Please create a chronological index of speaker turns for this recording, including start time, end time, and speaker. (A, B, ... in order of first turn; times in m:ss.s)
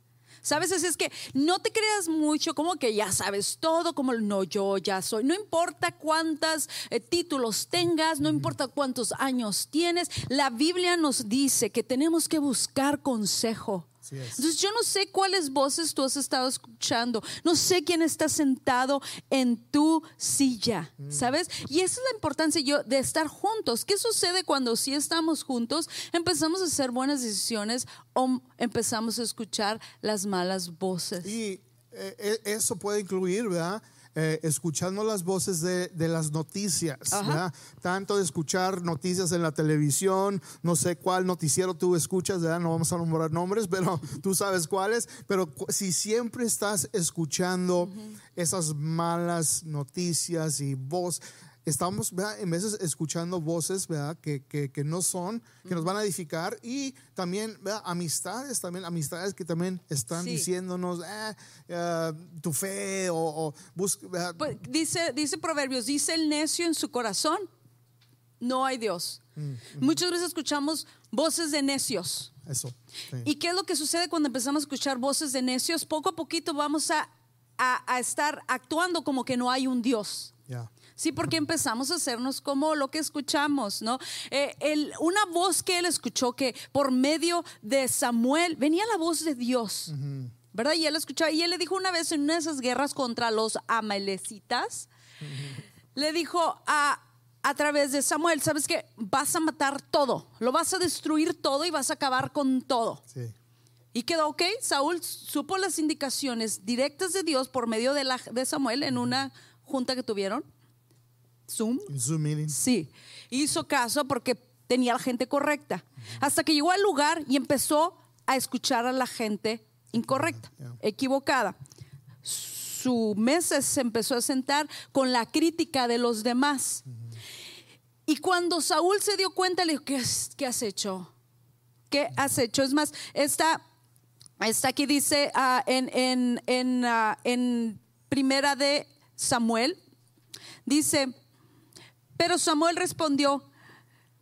0:00.4-0:31.3 A
0:14.1-0:14.5 B
0:21.0-0:21.3 B
0:31.2-1:04.6 B
0:37.1-0:37.4 A
1:00.2-1:00.5 A
1:04.4-1:07.5 A
1:08.4-1:09.2 A
1:09.4-1:10.0 B
1:09.7-1:12.3 A
1:12.4-1:13.3 B
1:13.2-1:20.3 A
1:21.0-1:29.9 A
1:29.9-1:30.3 B
1:30.5-1:34.9 A
1:35.2-1:35.6 B
1:35.9-1:43.0 A
1:43.9-1:50.4 A
1:51.5-1:51.9 A
1:51.9-1:52.6 B
1:52.5-2:01.6 A
2:00.0-2:00.8 B
2:02.2-2:06.8 A
2:08.1-2:11.1 A
2:11.9-2:13.6 A
2:14.4-2:19.8 A
2:20.6-2:21.1 A
2:22.2-2:23.5 A